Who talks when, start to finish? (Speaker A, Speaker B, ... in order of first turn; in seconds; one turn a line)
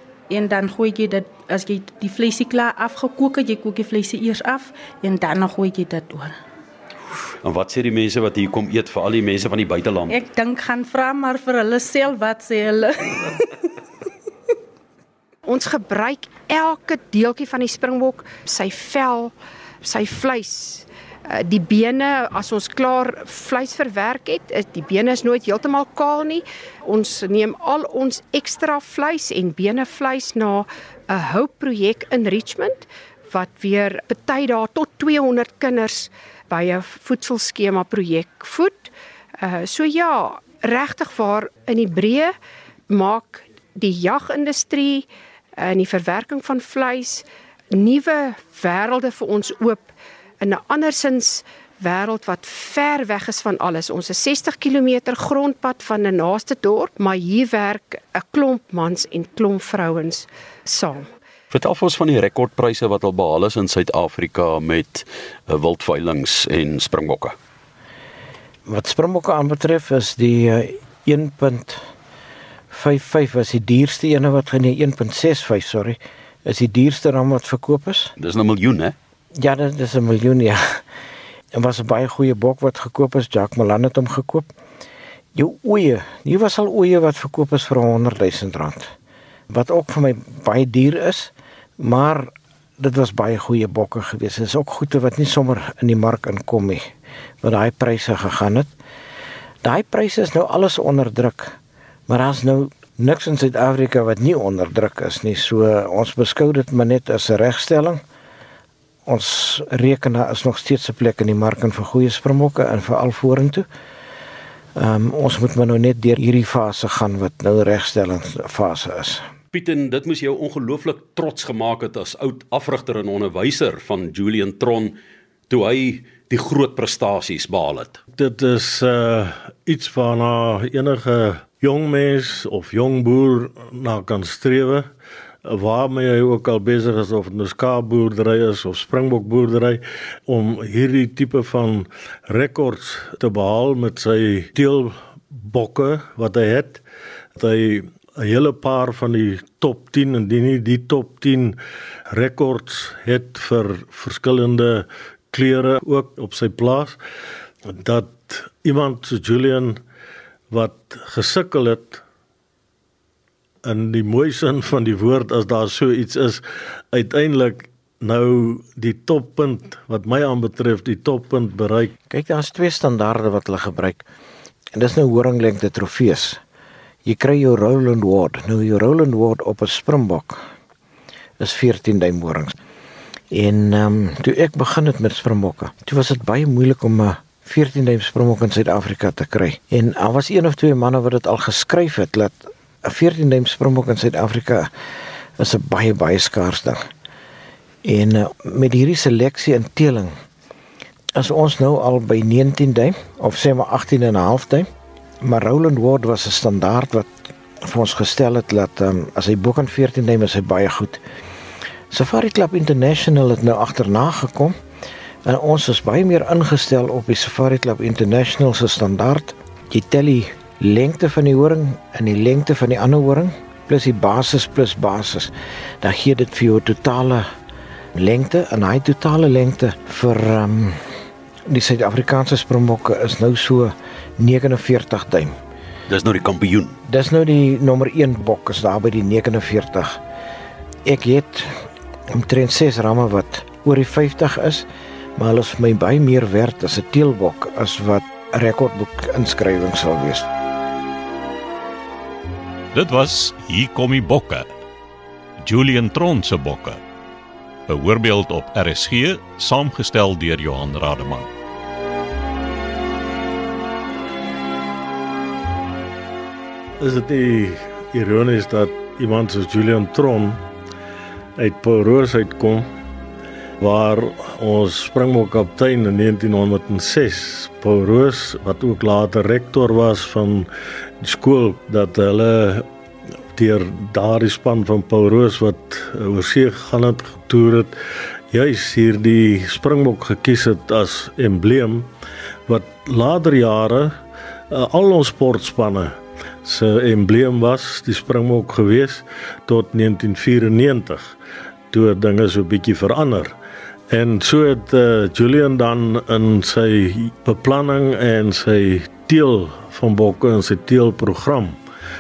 Speaker A: 0.3-6.4
Speaker B: 7.4-10.2
Speaker A: 10.1-13.5
Speaker C: 15.5-42.3
Speaker C: 42.9-49.9
Speaker C: 50.4-61.1
Speaker B: 61.5-67.3
Speaker D: 68.7-71.8
Speaker D: 72.7-78.2
Speaker B: 78.2-79.0
Speaker D: 79.3-80.8
Speaker D: 81.5-84.5
Speaker D: 85.3-88.9
Speaker D: 89.5-96.9
Speaker D: 97.4-98.7
Speaker D: 99.6-101.6
Speaker D: 102.1-108.0
Speaker D: 109.1-113.7
Speaker D: 114.8-119.2
Speaker B: 119.5-125.0
Speaker B: 125.5-128.0
Speaker E: 128.2-134.9
Speaker E: 135.4-146.8
Speaker E: 147.4-151.6
Speaker E: 152.1-157.0
Speaker E: 157.7-159.8
Speaker E: 160.5-162.0
Speaker E: 163.7-171.9
Speaker D: 172.1-174.1
Speaker D: 174.7-176.4
Speaker D: 177.1-180.4
Speaker D: 181.4-182.6
Speaker D: 183.3-194.7
Speaker D: 195.4-196.8
Speaker D: 197.8-200.1
Speaker D: 201.2-204.7
Speaker D: 205.2-211.0
Speaker D: 211.9-214.6
Speaker D: 215.2-227.3
Speaker D: 227.9-230.9
Speaker D: 231.5-235.4
Speaker B: 235.9-236.8
Speaker D: 236.8-240.0
Speaker D: 240.8-250.3
Speaker F: 252.7-254.5
Speaker F: 255.4-256.8
Speaker F: 257.7-261.3
Speaker E: 266.8-270.4
Speaker E: 271.4-272.7
Speaker E: 273.6-280.5
Speaker E: 281.0-282.7
Speaker E: 283.4-287.8
Speaker E: 288.3-291.9
Speaker E: 292.5-294.0
Speaker E: 294.5-301.1
Speaker E: 301.7-303.3
Speaker E: 303.9-311.6